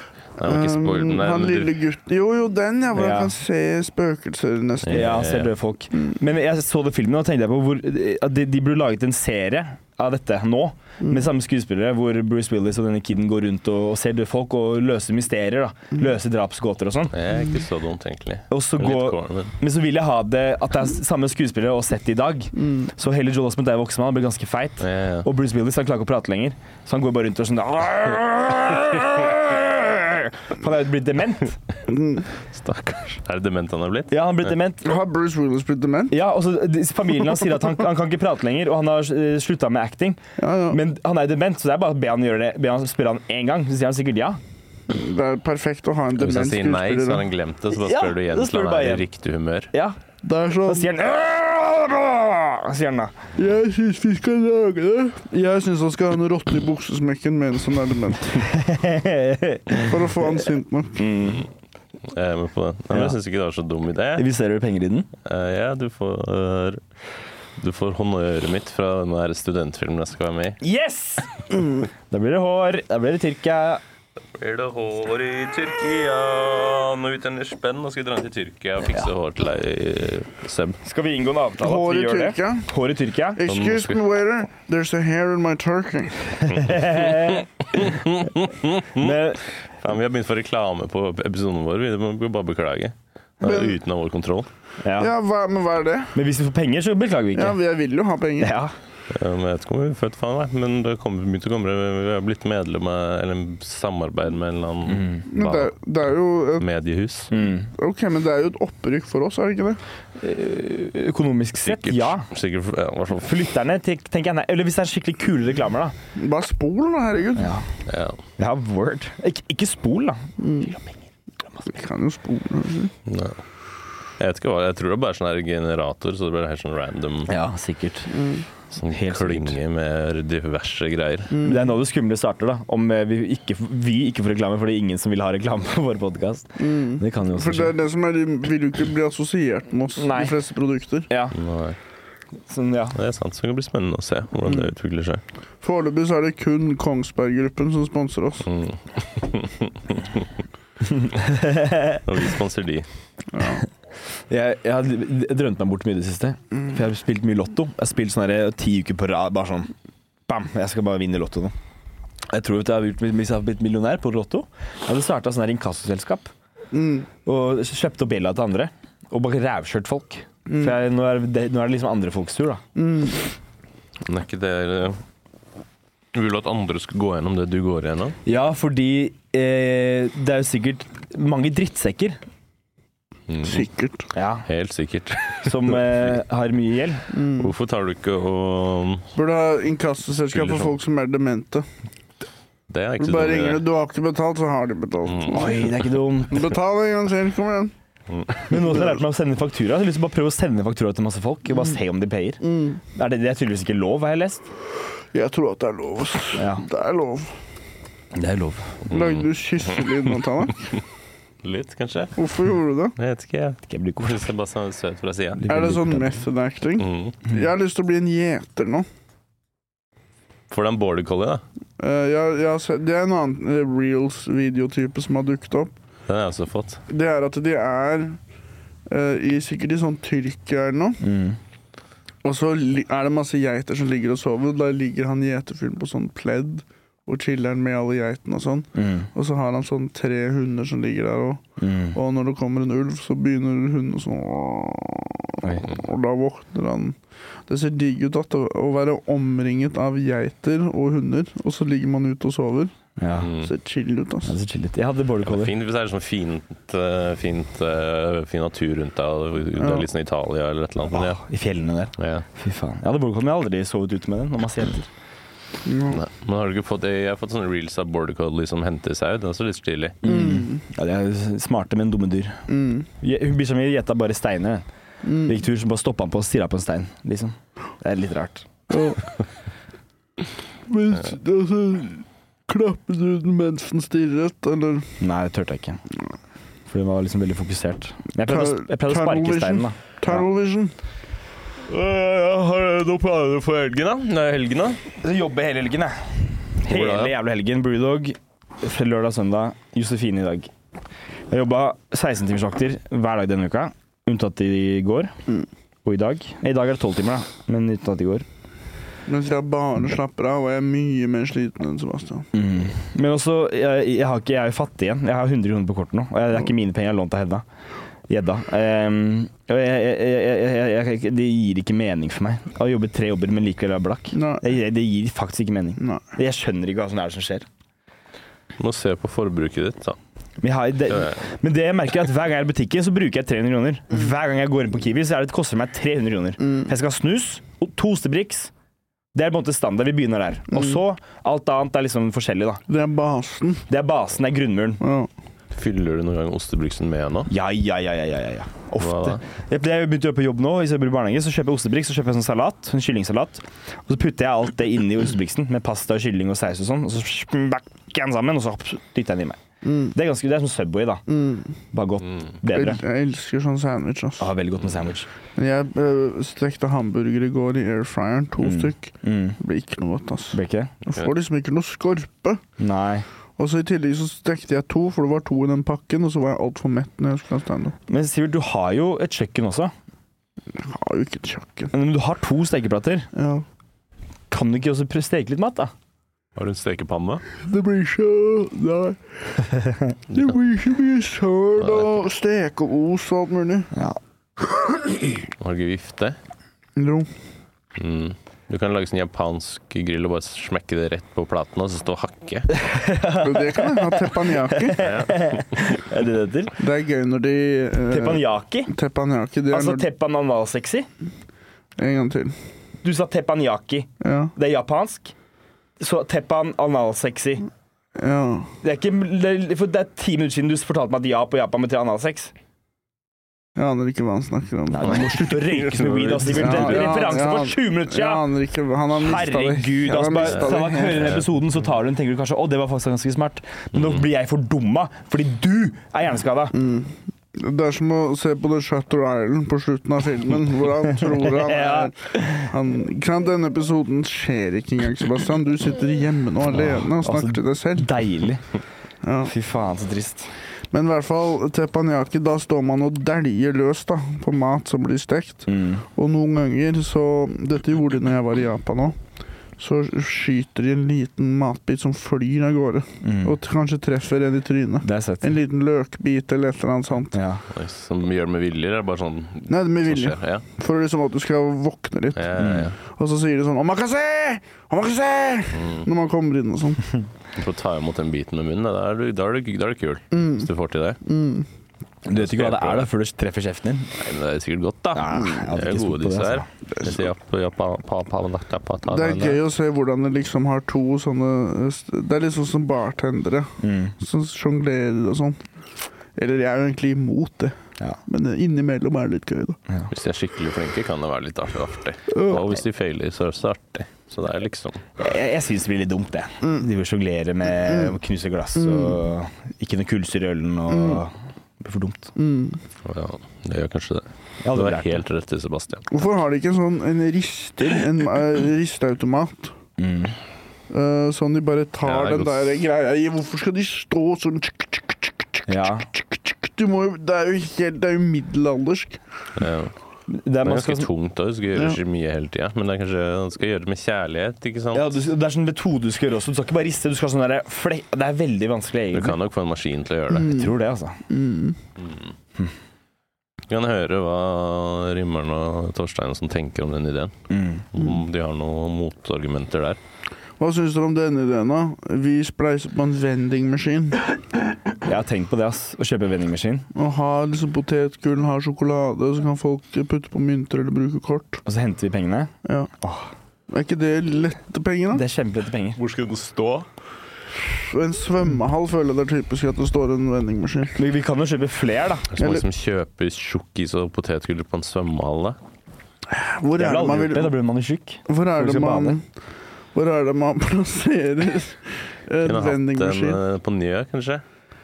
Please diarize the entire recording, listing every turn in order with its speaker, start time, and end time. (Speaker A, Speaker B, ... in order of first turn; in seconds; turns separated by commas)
Speaker A: 0.4-1.7, Speaker B: 0.4-5.3, Speaker C: 2.9-3.3, Speaker A: 4.8-5.5, Speaker C: 4.9-17.1, Speaker A: 17.1-19.5, Speaker C: 18.5-31.6, Speaker A: 24.8-25.2, Speaker B: 31.9-32.2, Speaker A: 32.5-34.5, Speaker C: 34.1-34.9, Speaker B: 34.8-36.1, Speaker C: 36.1-44.4, Speaker B: 40.4-40.8, Speaker B: 44.9-47.2, Speaker A: 46.2-49.7, Speaker C: 47.7-49.0, Speaker C: 49.7-50.0, Speaker B: 50.2-50.9, Speaker C: 50.6-53.1, Speaker B: 53.4-58.5, Speaker C: 58.5-60.0, Speaker B: 59.8-61.1, Speaker C: 61.0-61.5, Speaker A: 62.1-64.2, Speaker C: 62.9-63.1, Speaker C: 64.2-65.1, Speaker A: 65.2-66.8, Speaker A: 67.6-70.6, Speaker C: 70.6-73.8, Speaker A: 74.4-80.8, Speaker C: 80.8-83.4, Speaker B: 81.6-82.7, Speaker B: 83.3-86.3, Speaker A: 83.5-84.0, Speaker C: 86.4-87.8, Speaker A: 86.5-89.1, Speaker C: 88.9-89.5, Speaker A: 89.8-94.5, Speaker B: 93.4-93.8, Speaker C: 94.8-95.1, Speaker B: 95.0-96.2, Speaker C: 96.1-97.6, Speaker B: 97.3-98.5, Speaker C: 98.4-98.7, Speaker A: 99.1-105.7, Speaker C: 104.9-105.2, Speaker B: 105.3-106.7, Speaker A: 106.6-107.3, Speaker C: 107.3-107.7, Speaker B: 107.7-109.8, Speaker C: 110.2-112.2, Speaker A: 111.6-113.3, Speaker C: 113.2-115.9, Speaker B: 116.2-117.6, Speaker C: 117.4-117.6, Speaker A: 117.9-118.2, Speaker C: 118.4-120.8, Speaker B: 120.4-120.7, Speaker B: 121.7-122.9, Speaker A: 123.0-123.4, Speaker A: 124.2-127.3, Speaker C: 127.3-128.2, Speaker B: 128.1-128.5, Speaker A: 128.7-131.3, Speaker C: 128.9-129.6, Speaker B: 131.3-131.6, Speaker C: 131.4-137.7, Speaker B: 136.6-141.1, Speaker C: 140.0-140.3, Speaker C: 141.1-141.3, Speaker A: 141.3-141.8, Speaker C: 142.5-143.0, Speaker A: 142.9-145.2, Speaker B: 145.6-148.5, Speaker A: 148.5-150.2, Speaker C: 150.9-152.0, Speaker A: 152.0-152.9, Speaker B: 153.3-153.6, Speaker C: 154.3-159.7, Speaker C: 160.3-161.5, Speaker C: 162.3-166.3, Speaker B: 166.7-167.1, Speaker C: 167.2-172.6, Speaker B: 170.5-170.7, Speaker B: 172.8-173.2, Speaker A: 174.0-175.0, Speaker A: 176.1-178.2, Speaker C: 178.2-182.2, Speaker A: 183.3-183.6, Speaker B: 183.4-184.1, Speaker C: 184.1-184.5, Speaker A: 184.5-185.9, Speaker C: 185.4-187.1, Speaker B: 187.1-187.5, Speaker A: 187.3-189.1, Speaker B: 189.1-191.7, Speaker A: 190.3-190.7, Speaker A: 192.7-193.7, Speaker B: 193.0-195.7, Speaker A: 195.1-195.6, Speaker C: 195.3-196.5, Speaker B: 196.3-197.7, Speaker A: 198.1-198.4, Speaker C: 198.5-204.4, Speaker B: 202.4-202.8, Speaker B: 205.1-207.4, Speaker C: 206.3-206.7, Speaker C: 208.1-208.8, Speaker A: 208.9-210.1, Speaker B: 208.9-210.7, Speaker A: 211.4-212.2, Speaker B: 212.2-212.9, Speaker A: 213.0-215.4, Speaker C: 213.7-214.2, Speaker C: 215.4-216.2, Speaker B: 215.5-218.9, Speaker A: 216.8-217.2, Speaker A: 220.5-221.4, Speaker B: 221.8-225.7, Speaker A: 226.1-226.8, Speaker B: 226.9-228.2, Speaker B: 228.9-231.0, Speaker C: 231.0-231.4, Speaker B: 232.2-241.4, Speaker C: 238.7-239.1, Speaker C: 241.6-242.0, Speaker B: 241.9-252.7, Speaker C: 245.4-245.7, Speaker C: 253.0-253.3, Speaker A: 253.2-253.5, Speaker B: 253.4-254.3, Speaker C: 254.2-255.5, Speaker A: 255.2-261.2, Speaker B: 259.6-259.9, Speaker C: 260.9-264.9, Speaker A: 262.0-262.2, Speaker B: 265.6-266.0, Speaker A: 265.9-270.0, Speaker C: 270.0-272.4, Speaker B: 270.0-270.6, Speaker B: 272.5-272.9, Speaker C: 273.0-274.6, Speaker B: 275.0-275.3, Speaker C: 275.1-278.5, Speaker B: 278.7-279.0, Speaker B: 280.6-284.9, Speaker C: 285.0-285.8, Speaker C: 286.7-290.2, Speaker B: 288.2-290.7, Speaker A: 291.7-294.8, Speaker C: 295.0-300.5, Speaker A: 296.7-297.1, Speaker C: 301.3-305.1, Speaker C: 305.8-308.2, Speaker B: 309.1-312.3, Speaker C: 312.3-317.4, Speaker C: 318.1-327.4, Speaker B: 324.1-324.4, Speaker B: 325.8-326.0, Speaker A: 328.6-330.0, Speaker C: 330.4-338.5, Speaker A: 330.9-331.1, Speaker C: 339.1-342.6, Speaker B: 342.7-343.6, Speaker C: 343.7-344.8, Speaker B: 344.8-345.1, Speaker A: 345.5-347.3, Speaker C: 347.3-359.4, Speaker A: 348.8-349.2, Speaker B: 359.6-359.9, Speaker C: 359.9-361.0, Speaker B: 361.1-361.5, Speaker C: 361.7-362.8, Speaker B: 362.5-364.3, Speaker C: 364.2-365.1, Speaker B: 365.4-372.4, Speaker C: 368.4-369.4, Speaker C: 370.3-370.7, Speaker C: 372.6-373.0, Speaker B: 373.4-377.8, Speaker C: 377.9-379.7, Speaker B: 380.5-381.7, Speaker C: 381.7-383.1, Speaker B: 383.1-383.4, Speaker C: 384.3-385.7, Speaker A: 386.4-387.2, Speaker B: 387.4-389.4, Speaker C: 389.5-389.9, Speaker B: 390.1-393.7, Speaker A: 391.6-391.9, Speaker C: 393.7-394.0, Speaker A: 395.4-396.2, Speaker B: 396.8-397.1, Speaker A: 397.8-402.5, Speaker C: 402.5-406.5, Speaker B: 403.2-404.8, Speaker A: 404.8-405.6, Speaker B: 406.6-409.9, Speaker C: 407.9-408.7, Speaker C: 409.5-410.9, Speaker B: 411.8-412.4, Speaker C: 412.8-415.1, Speaker B: 414.0-414.3, Speaker C: 415.8-417.4, Speaker B: 417.9-418.5, Speaker C: 418.6-422.3, Speaker B: 423.6-425.1, Speaker C: 424.7-428.2, Speaker A: 425.4-427.0, Speaker B: 426.4-431.1, Speaker C: 428.9-436.6, Speaker A: 430.2-431.2, Speaker A: 433.8-434.0, Speaker B: 436.5-448.0, Speaker C: 441.1-442.5, Speaker C: 446.6-448.4, Speaker B: 449.0-449.3, Speaker C: 449.2-450.3, Speaker B: 450.7-459.0, Speaker C: 455.5-455.8, Speaker B: 459.6-467.2, Speaker C: 463.0-463.4, Speaker C: 464.8-465.3, Speaker C: 467.1-467.4, Speaker A: 467.5-470.4, Speaker B: 469.5-476.9, Speaker A: 472.1-472.7, Speaker C: 472.4-472.7, Speaker A: 475.5-475.9, Speaker A: 477.3-481.0, Speaker B: 480.1-480.5, Speaker B: 481.0-481.5, Speaker C: 482.1-483.9, Speaker A: 482.1-482.9, Speaker A: 484.0-489.4, Speaker C: 484.9-486.4, Speaker B: 485.1-485.4, Speaker B: 486.7-487.1, Speaker B: 488.9-495.4, Speaker C: 493.6-493.9, Speaker B: 496.1-499.6, Speaker A: 499.9-504.9, Speaker B: 502.1-502.5, Speaker C: 505.0-512.1, Speaker B: 507.6-508.0, Speaker B: 508.5-509.0, Speaker B: 510.7-511.0, Speaker B: 512.1-512.6, Speaker A: 512.8-515.9, Speaker C: 514.4-515.0, Speaker B: 515.9-519.5, Speaker C: 519.8-520.2, Speaker B: 520.7-529.0, Speaker A: 521.8-522.6, Speaker C: 525.5-525.9, Speaker A: 529.4-529.7, Speaker C: 530.1-530.9, Speaker A: 530.4-534.9, Speaker C: 534.7-539.2, Speaker A: 538.9-540.4, Speaker B: 540.1-540.5, Speaker C: 540.2-541.0, Speaker B: 541.1-541.6, Speaker A: 541.8-542.1, Speaker A: 543.5-547.1, Speaker C: 547.3-547.7, Speaker A: 547.7-549.8, Speaker B: 550.4-554.0, Speaker C: 554.8-556.6, Speaker B: 556.7-561.4, Speaker C: 561.5-563.1, Speaker B: 562.4-562.7, Speaker B: 563.5-565.0, Speaker C: 564.9-565.8, Speaker A: 565.8-566.7, Speaker B: 567.3-570.8, Speaker C: 570.8-572.1, Speaker A: 572.1-575.4, Speaker B: 572.2-572.4, Speaker B: 576.1-577.3, Speaker C: 576.6-579.0, Speaker B: 578.1-579.0, Speaker B: 579.7-583.2, Speaker A: 582.2-584.2